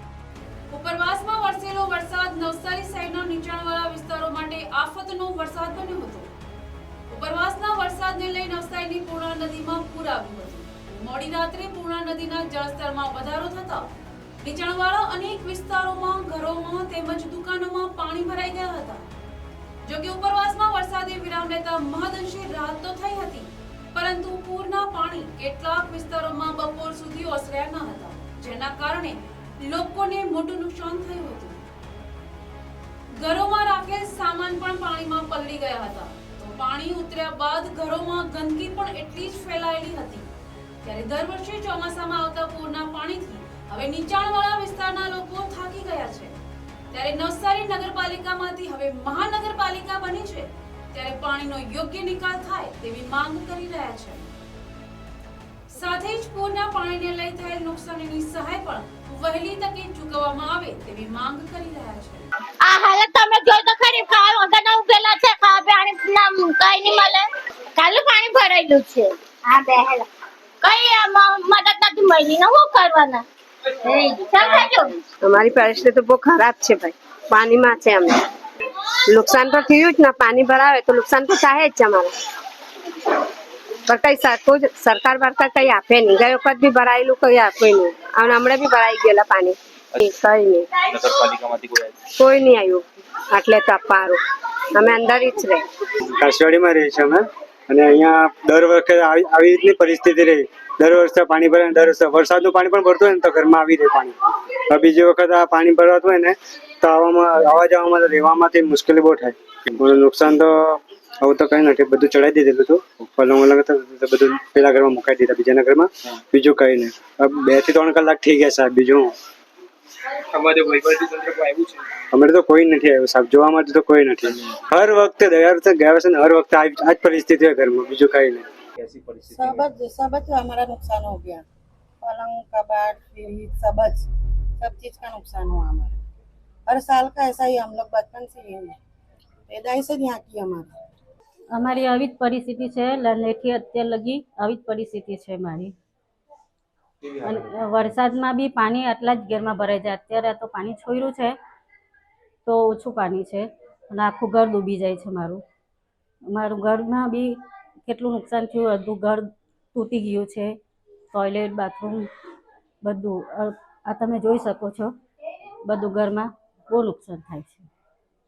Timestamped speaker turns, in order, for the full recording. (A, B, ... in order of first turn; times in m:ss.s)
0:00.7-0:06.3 A
0:07.1-0:13.9 A
0:14.4-0:19.1 A
0:19.8-0:31.6 A
0:33.2-0:40.3 A
0:40.8-0:46.4 A
0:46.9-0:54.3 A
0:55.7-1:02.3 A
1:02.6-1:10.1 B
1:10.6-1:13.2 B
1:13.9-1:15.0 B
1:15.2-1:18.2 C
1:19.1-1:22.1 C
1:23.9-1:30.7 C
1:30.9-1:32.0 D
1:32.2-1:34.2 C
1:34.7-1:35.7 C
1:36.1-1:59.1 E
2:00.3-2:01.8 D
2:02.1-2:08.5 E
2:08.8-2:09.6 D
2:09.3-2:11.4 F
2:12.0-2:14.1 F
2:14.6-2:16.0 F
2:16.7-2:18.8 F
2:19.5-2:20.7 F
2:21.5-2:25.7 G
2:27.2-2:31.4 G
2:32.5-2:35.4 G
2:36.3-2:37.4 G
2:37.9-2:40.6 G
2:41.1-2:42.1 G
2:42.8-2:44.9 G
2:45.7-2:47.7 G